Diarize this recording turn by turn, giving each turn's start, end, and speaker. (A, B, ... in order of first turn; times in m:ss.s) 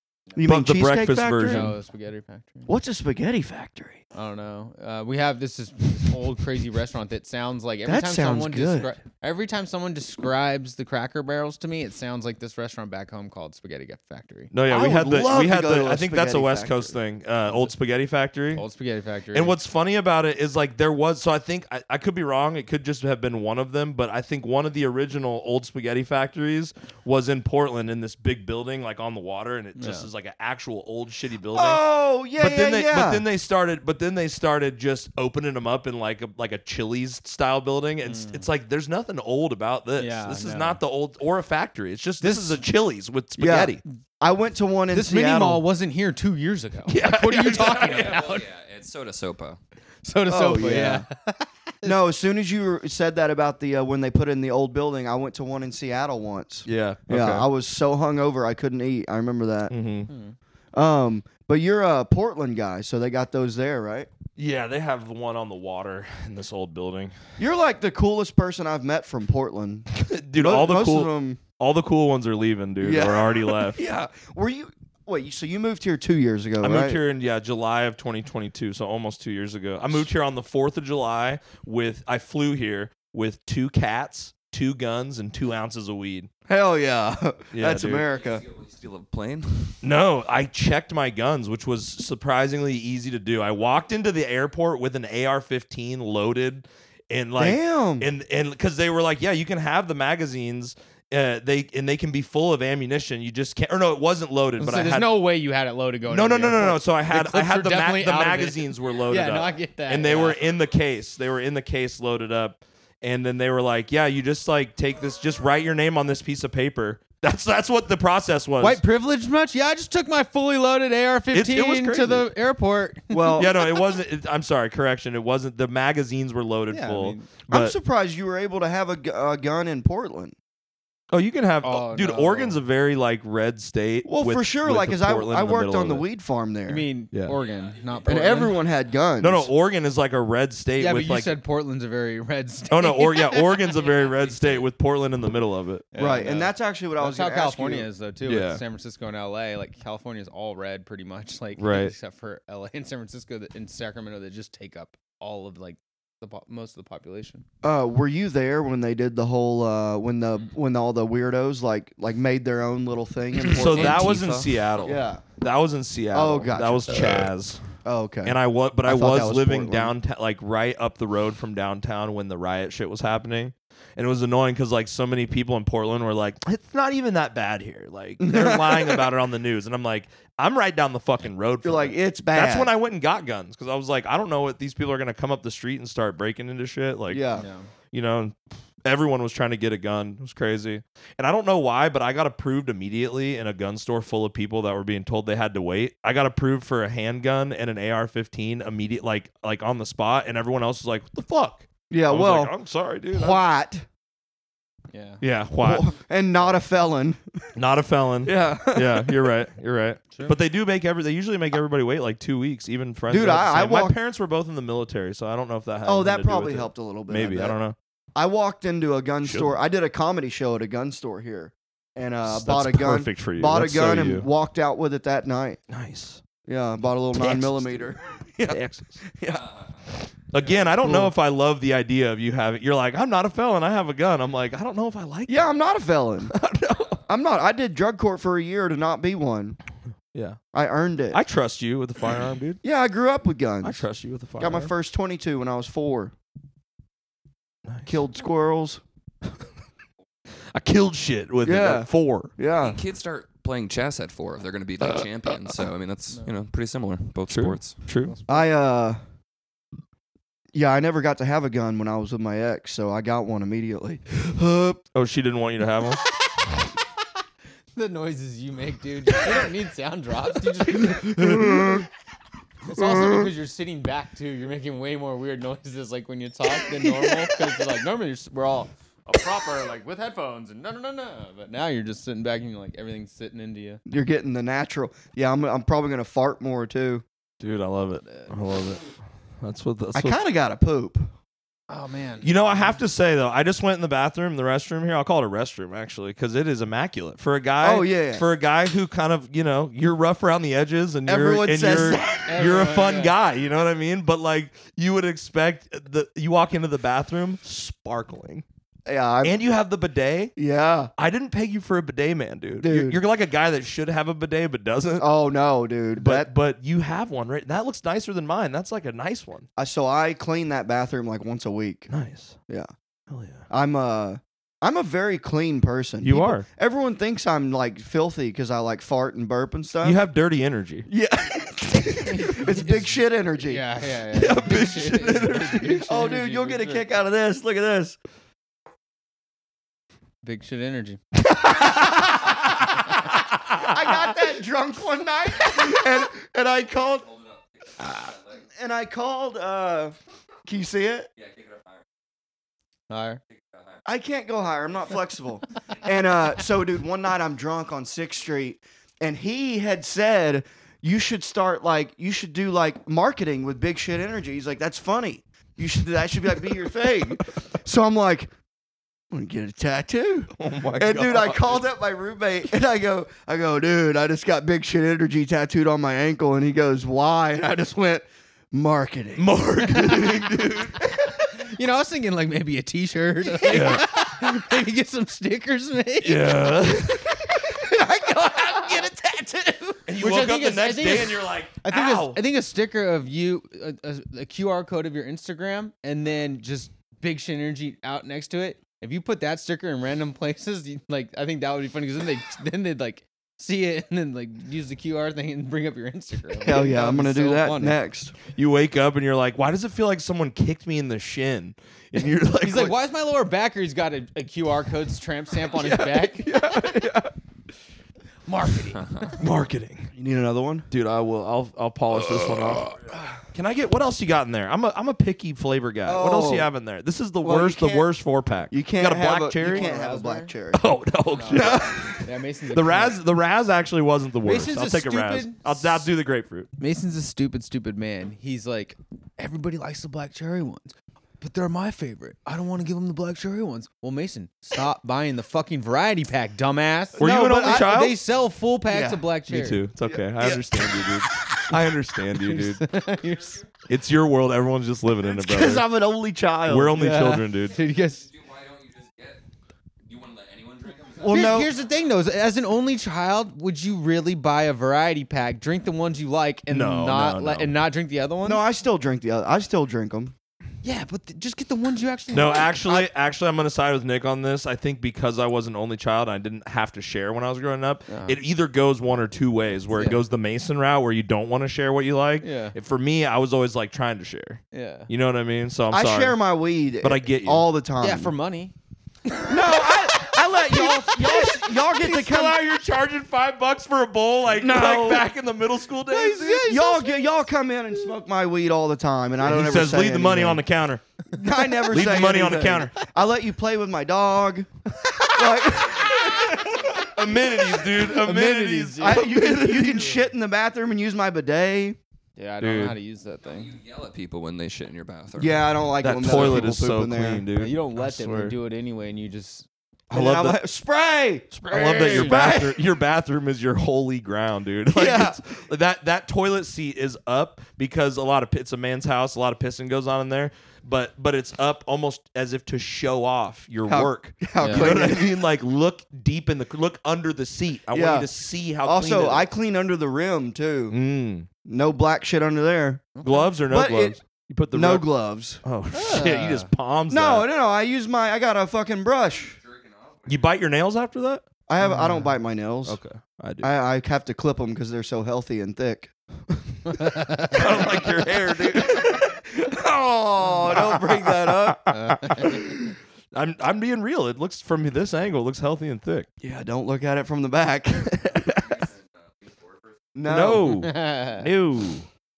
0:00.4-0:01.7 A
0:00.4-0:01.8 B
0:01.4-0:02.7 C
0:02.7-0:04.0 A
0:04.1-0:14.5 C
0:07.8-0:09.0 A
0:14.5-0:18.6 B
0:14.7-0:17.0 A
0:17.5-0:17.7 C
0:18.5-0:19.6 C
0:19.3-0:31.8 B
0:29.8-0:30.1 C
0:31.5-0:33.2 A
0:32.4-0:43.8 B
0:38.0-0:38.5 C
0:40.0-0:40.8 C
0:42.2-0:42.6 C
0:43.4-0:45.6 A
0:44.9-0:48.5 C
0:46.9-0:48.2 B
0:47.7-0:49.6 D
0:50.0-0:52.0 C
0:50.3-0:51.1 A
0:51.8-0:59.7 A
0:56.7-0:57.5 B
0:59.7-1:00.1 B
1:00.1-1:00.4 C
1:00.7-1:04.1 A
1:04.4-1:07.1 B
1:07.4-1:11.4 A
1:09.9-1:13.8 B
1:12.8-1:17.0 A
1:16.6-1:26.3 B
1:26.5-1:28.4 A
1:27.5-1:28.0 B
1:28.0-1:29.8 D
1:29.8-1:45.1 B
1:37.4-1:38.1 A
1:44.6-1:50.4 C
1:46.1-1:58.8 B
1:58.6-2:03.8 C
2:01.3-2:02.3 B
2:03.1-2:03.6 A
2:03.4-2:07.8 B
2:06.7-2:07.3 C
2:07.5-2:10.3 A
2:11.1-2:16.0 B
2:11.6-2:12.6 C
2:14.0-2:16.9 A
2:16.7-2:18.6 C
2:17.3-2:19.0 D
2:18.1-2:19.5 A
2:19.2-2:21.4 B
2:20.8-2:23.6 C
2:22.7-2:25.9 B
2:23.7-2:24.7 D
2:25.9-2:37.4 C
2:26.0-2:27.9 A
2:28.2-2:28.6 B
2:31.6-2:31.9 B
2:37.6-2:45.2 A
2:43.4-2:44.9 D
2:43.5-2:47.6 B
2:46.1-2:47.3 A
2:47.8-2:50.0 A
2:48.2-3:07.3 B
2:58.2-2:59.1 A
3:01.6-3:02.7 A
3:07.1-3:07.5 A
3:07.3-3:07.7 C
3:07.9-3:23.4 B
3:21.9-3:22.5 A
3:23.1-3:23.9 A
3:24.9-3:25.2 C
3:25.2-3:25.9 B
3:25.6-3:27.2 A
3:27.6-3:37.8 B
3:28.2-3:29.3 A
3:33.1-3:34.0 A
3:35.8-3:37.6 A
3:38.2-3:45.6 A
3:39.2-3:39.5 B
3:42.2-3:44.3 B
3:45.7-3:46.2 B
3:46.4-3:48.6 A
3:47.2-3:47.9 B
3:48.4-3:49.1 B
3:49.1-3:49.4 A
3:49.3-3:49.8 D
3:50.3-3:55.5 B
3:50.8-3:51.1 A
3:55.3-3:56.4 A
3:56.3-3:57.0 B
3:56.8-3:57.0 D
3:57.1-3:59.6 A
4:00.1-4:00.4 B
4:00.5-4:01.2 A
4:01.1-4:02.6 B
4:02.6-4:03.8 A
4:03.6-4:04.7 B
4:04.4-4:06.1 A
4:07.7-4:07.9 B
4:07.9-4:08.8 A
4:10.5-4:12.3 B
4:11.4-4:12.8 A
4:12.6-4:17.8 D
4:14.8-4:15.6 B
4:17.3-4:18.1 B
4:18.0-4:18.5 C
4:18.3-4:19.0 A
4:20.5-4:24.8 A
4:24.9-4:26.0 B
4:27.8-4:31.4 C
4:30.8-4:31.9 A
4:32.7-4:43.8 C
4:33.0-4:33.2 A
4:43.9-4:47.0 A
4:47.4-4:50.2 B
4:48.1-4:48.3 C
4:50.0-4:51.1 A
4:51.7-4:52.8 C
4:52.2-5:08.4 B
4:57.6-4:58.3 A
5:01.1-5:02.3 A
5:02.3-5:03.2 C
5:08.9-5:09.4 A
5:09.2-5:10.4 B
5:10.4-5:10.9 A
5:11.0-5:15.1 B
5:12.6-5:13.0 A
5:15.0-5:16.3 A
5:16.0-5:19.5 B
5:19.6-5:21.9 A
5:21.9-5:22.4 B
5:23.1-5:23.4 B
5:23.5-5:30.0 A
5:26.0-5:26.5 B
5:29.8-5:30.9 B
5:30.9-5:33.6 A
5:32.0-5:36.9 C
5:34.1-5:35.9 B
5:35.9-5:38.0 A
5:40.2-5:41.0 C
5:43.6-5:47.1 A
5:46.8-5:48.4 D
5:48.6-5:50.0 A
5:50.5-5:51.1 A
5:51.2-5:51.8 D
5:52.9-5:53.2 C
5:53.3-5:53.8 D
5:53.9-6:08.3 A
6:09.1-6:19.3 A
6:10.4-6:11.6 B
6:19.2-6:20.9 B
6:19.7-6:20.1 C
6:21.3-6:47.8 C
6:23.5-6:23.8 B
6:26.0-6:27.2 B
6:29.9-6:32.2 B
6:46.4-6:48.2 A
6:48.3-6:52.8 B
6:52.4-6:56.6 C
6:55.5-6:57.1 B
6:58.3-6:59.2 C
6:58.8-6:59.1 D
6:59.2-6:59.9 B
7:00.0-7:00.7 A
7:00.7-7:02.8 B
7:03.3-7:09.7 B
7:05.9-7:06.5 A
7:07.2-7:07.9 A
7:08.5-7:10.6 A
7:09.4-7:10.3 C
7:10.5-7:16.5 B
7:11.1-7:13.0 C
7:11.3-7:11.9 A
7:14.2-7:15.9 C
7:16.6-7:29.6 C
7:27.0-7:27.7 A
7:27.0-7:28.0 B
7:28.7-7:29.0 A
7:29.3-7:32.7 B
7:29.9-7:31.0 A
7:32.2-7:33.4 C
7:33.0-7:33.5 D
7:33.7-7:35.7 B
7:35.0-7:36.8 A
7:36.5-7:37.6 B
7:36.7-7:38.1 C
7:37.5-7:39.2 D
7:39.9-7:41.7 D
7:41.0-7:41.5 A
7:41.1-7:48.4 C
7:46.5-7:47.5 B
7:48.2-7:50.2 A
7:50.6-7:52.6 C
7:52.1-8:06.2 B
7:57.9-7:58.2 C
7:59.7-8:00.0 C
8:02.2-8:02.6 C
8:04.5-8:04.9 C
8:05.7-8:08.1 A
8:06.8-8:07.5 B
8:07.8-8:08.5 C
8:09.1-8:09.4 C
8:09.3-8:12.4 A
8:10.5-8:16.5 B
8:14.3-8:15.1 A
8:15.9-8:17.0 C
8:16.4-8:20.4 A
8:19.2-8:20.8 B
8:21.1-8:24.5 A
8:21.7-8:22.7 B
8:25.1-8:26.3 A
8:26.3-8:30.0 B
8:27.6-8:29.2 C
8:28.8-8:31.8 A
8:32.2-8:33.5 C
8:32.4-8:32.8 B
8:33.2-8:35.5 D
8:35.2-8:37.3 A
8:35.8-8:38.4 B
8:37.4-8:39.5 C
8:39.9-8:42.6 A
8:39.9-8:40.4 B
8:41.4-8:42.3 C
8:41.4-8:59.3 B
8:44.7-8:45.2 A
8:53.7-8:55.3 A
8:54.4-8:54.7 C
8:57.7-8:58.1 A
8:58.6-9:00.8 A
9:00.7-9:01.3 B
9:01.4-9:02.9 A
9:03.0-9:03.3 C
9:03.0-9:04.9 B
9:03.5-9:04.0 A
9:04.5-9:05.4 A
9:05.4-9:07.3 B
9:05.7-9:06.5 C
9:06.9-9:09.4 A
9:09.1-9:10.3 D
9:10.1-9:11.2 B
9:11.5-9:12.8 A
9:11.6-9:12.1 C
9:12.7-9:13.5 B
9:13.4-9:15.9 A
9:16.7-9:17.4 C
9:17.3-9:19.1 B
9:17.5-9:21.6 A
9:20.5-9:22.6 B
9:21.7-9:22.5 C
9:23.1-9:26.1 B
9:26.2-9:28.2 A
9:27.9-9:28.5 B
9:28.3-9:29.8 D
9:30.0-9:30.5 A
9:30.1-9:31.9 B
9:30.4-9:31.3 C